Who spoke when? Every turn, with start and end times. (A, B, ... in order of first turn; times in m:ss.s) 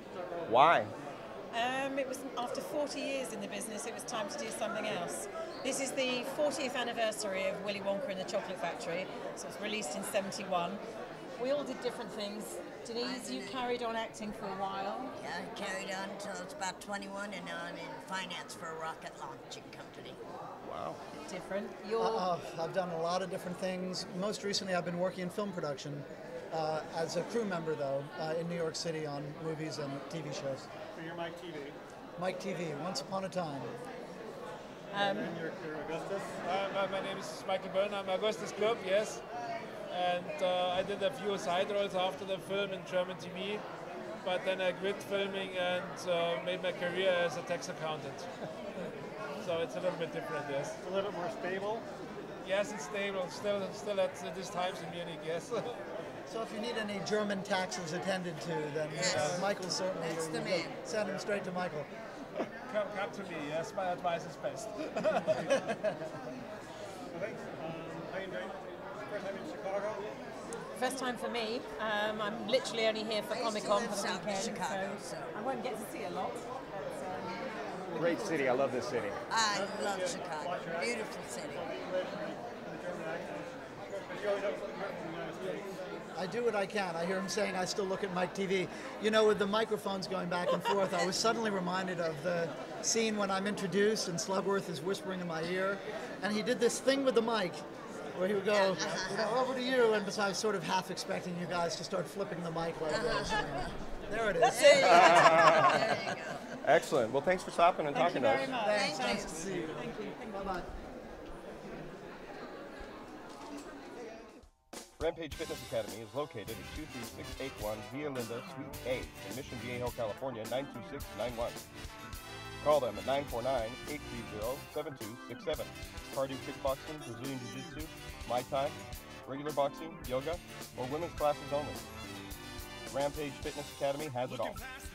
0:00.4-0:00.9 A
0:01.5-0:10.8 B
0:11.4-0:15.2 B
0:13.0-0:13.6 C
0:15.2-0:20.2 C
0:20.6-0:21.0 A
0:21.2-0:22.3 B
0:22.0-0:30.7 D
0:30.9-0:31.8 E
0:32.2-0:33.8 D
0:34.9-0:35.3 B
0:35.0-0:36.4 E
0:36.4-0:39.2 F
0:39.9-0:43.6 F
0:44.2-0:48.3 F
0:49.4-0:50.8 F
0:50.8-0:51.9 E
0:52.4-0:55.8 F
0:56.3-1:01.9 D
0:58.9-1:00.8 C
0:58.9-0:59.5 F
1:02.6-1:05.8 F
1:07.1-1:10.1 E
1:10.7-1:18.6 B
1:13.3-1:15.4 C
1:18.0-1:19.2 A
1:19.3-1:21.8 C
1:19.5-1:21.0 E
1:21.5-1:23.5 E
1:24.0-1:25.7 E
1:26.1-1:37.6 D
1:38.1-1:44.9 D
1:38.5-1:39.3 C
1:42.9-1:43.7 C
1:44.4-1:45.7 B
1:44.5-1:46.6 C
1:44.8-1:46.1 A
1:46.6-1:48.6 A
1:47.9-1:50.6 B
1:48.0-1:50.7 D
1:48.7-1:49.4 C
1:55.0-2:01.6 A
2:02.6-2:11.9 A
2:12.9-2:14.6 A